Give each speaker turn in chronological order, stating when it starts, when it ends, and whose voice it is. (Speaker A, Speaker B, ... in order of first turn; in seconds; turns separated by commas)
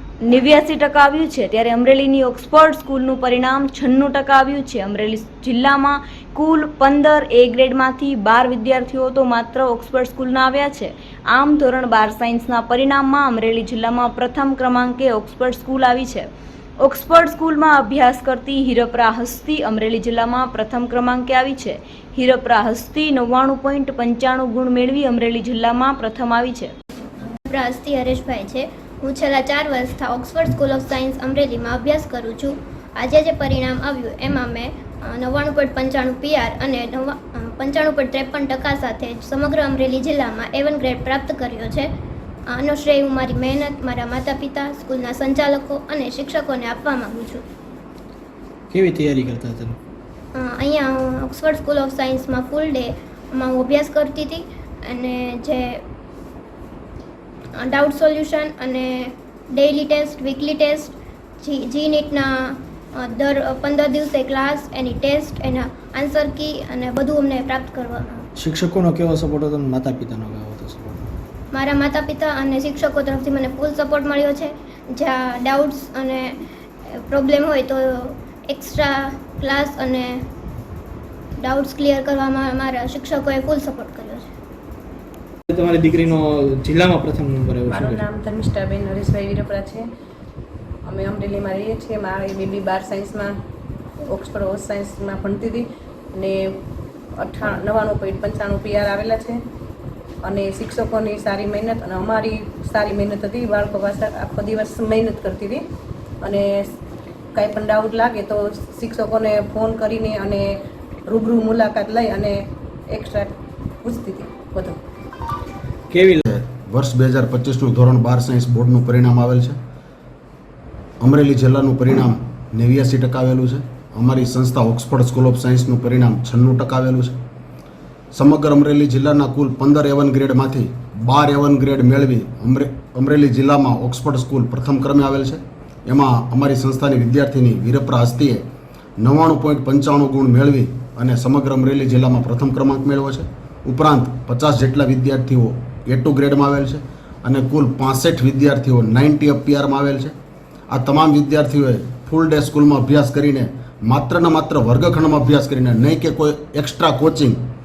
Speaker A: 0.2-16.3, Speaker A: 16.8-26.7, Speaker B: 27.4-41.9, Speaker B: 42.5-47.4, Speaker C: 48.7-49.8, Speaker B: 50.3-55.9, Speaker B: 57.5-68.3, Speaker C: 68.4-71.0, Speaker B: 71.5-80.3, Speaker B: 81.4-84.3, Speaker C: 85.5-88.0, Speaker D: 87.7-89.8, Speaker D: 90.8-93.3, Speaker D: 94.0-96.6, Speaker D: 97.2-99.4, Speaker D: 100.2-105.6, Speaker D: 106.2-106.7, Speaker D: 107.3-110.5, Speaker D: 111.1-112.4, Speaker D: 112.9-113.3, Speaker D: 113.8-114.8, Speaker C: 115.9-116.2, Speaker E: 116.3-119.5, Speaker E: 121.0-127.1, Speaker E: 128.1-138.4, Speaker E: 139.0-150.1, Speaker E: 150.7-157.4